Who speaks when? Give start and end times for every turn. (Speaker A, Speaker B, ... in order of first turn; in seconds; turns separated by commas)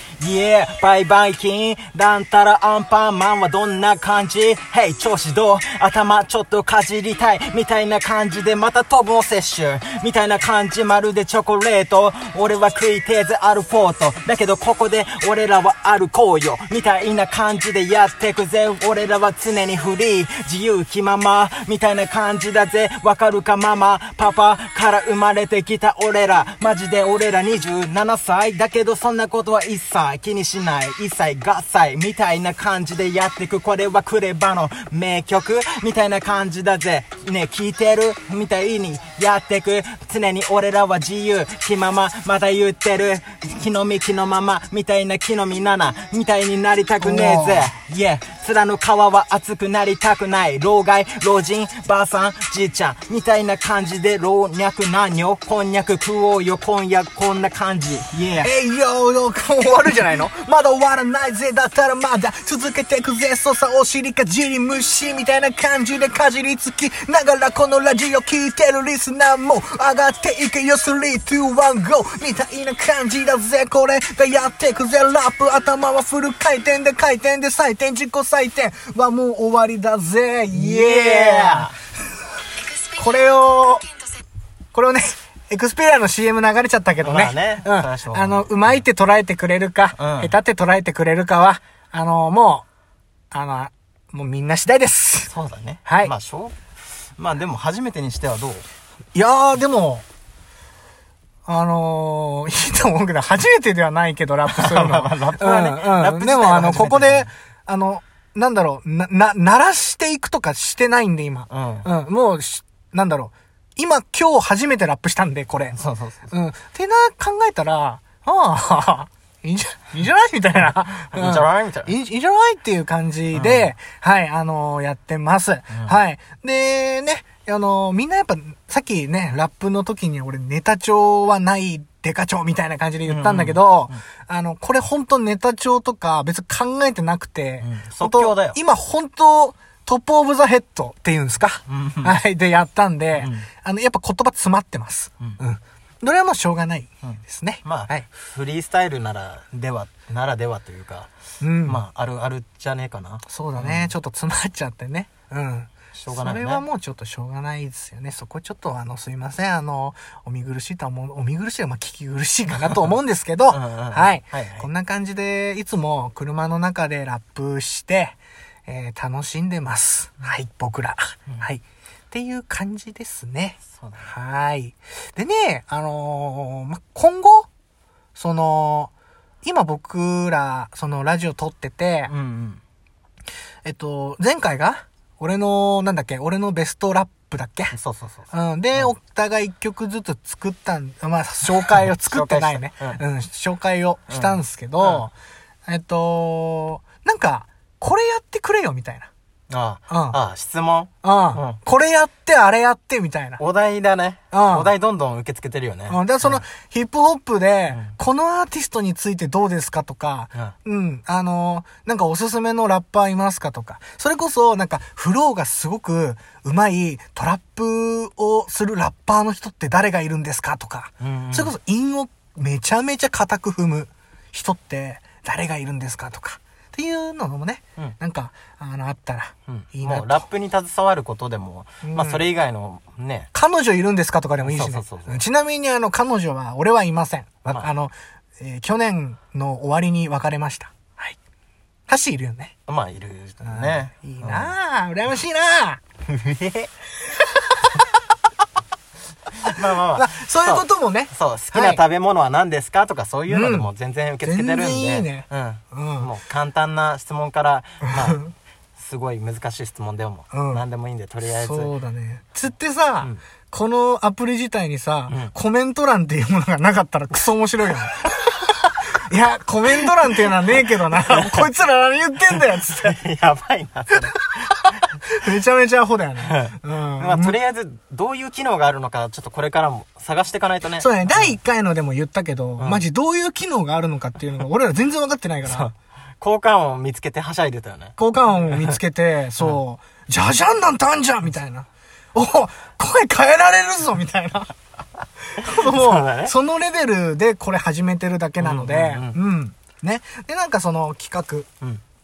Speaker A: 0.2-58.5, Speaker B: 47.0-47.8, Speaker B: 58.4-81.7, Speaker A: 80.5-81.7, Speaker B: 83.0-83.9, Speaker B: 84.7-92.7, Speaker A: 87.0-88.8, Speaker A: 90.0-90.3, Speaker B: 93.3-95.3, Speaker A: 95.3-96.6, Speaker B: 95.8-96.1, Speaker A: 97.2-98.7, Speaker B: 99.2-100.0, Speaker B: 101.5-115.8, Speaker A: 104.5-107.3, Speaker A: 111.5-111.9, Speaker A: 115.7-116.3, Speaker B: 116.3-148.1, Speaker A: 121.1-121.9, Speaker A: 123.3-123.7, Speaker A: 133.1-133.9, Speaker A: 137.6-138.6, Speaker A: 141.7-142.2, Speaker A: 143.2-143.5, Speaker A: 147.0-151.1, Speaker B: 151.4-151.8, Speaker A: 151.6-153.9, Speaker B: 153.3-177.5, Speaker A: 155.9-156.7, Speaker A: 163.5-164.7, Speaker A: 173.7-174.1, Speaker B: 178.2-178.9, Speaker B: 179.4-182.1, Speaker A: 182.1-182.6, Speaker B: 183.7-187.8, Speaker A: 187.7-188.9, Speaker B: 188.3-195.1, Speaker A: 191.6-193.0, Speaker A: 194.1-195.1, Speaker B: 195.7-199.1, Speaker A: 199.5-201.6, Speaker B: 199.9-200.2, Speaker B: 201.0-203.4, Speaker A: 203.4-206.4, Speaker B: 204.3-204.7, Speaker B: 205.9-230.3, Speaker A: 221.0-221.5, Speaker A: 229.5-233.3, Speaker B: 231.8-232.3, Speaker B: 233.3-241.2, Speaker A: 234.4-235.2, Speaker B: 241.9-242.5, Speaker A: 242.7-244.5, Speaker B: 243.4-245.8, Speaker A: 246.1-246.7, Speaker A: 249.5-258.2, Speaker B: 249.9-251.8, Speaker B: 253.3-253.7, Speaker B: 254.2-256.1, Speaker B: 257.9-258.3, Speaker A: 258.8-261.7, Speaker B: 260.3-260.6, Speaker B: 261.3-273.0, Speaker A: 270.9-271.5, Speaker A: 272.6-274.2, Speaker B: 274.2-274.5, Speaker B: 275.0-277.4, Speaker A: 276.2-281.4, Speaker B: 280.8-285.7, Speaker A: 282.6-282.8, Speaker A: 285.5-288.0, Speaker B: 288.0-294.5, Speaker B: 295.2-301.5, Speaker A: 295.6-296.3, Speaker A: 298.4-299.2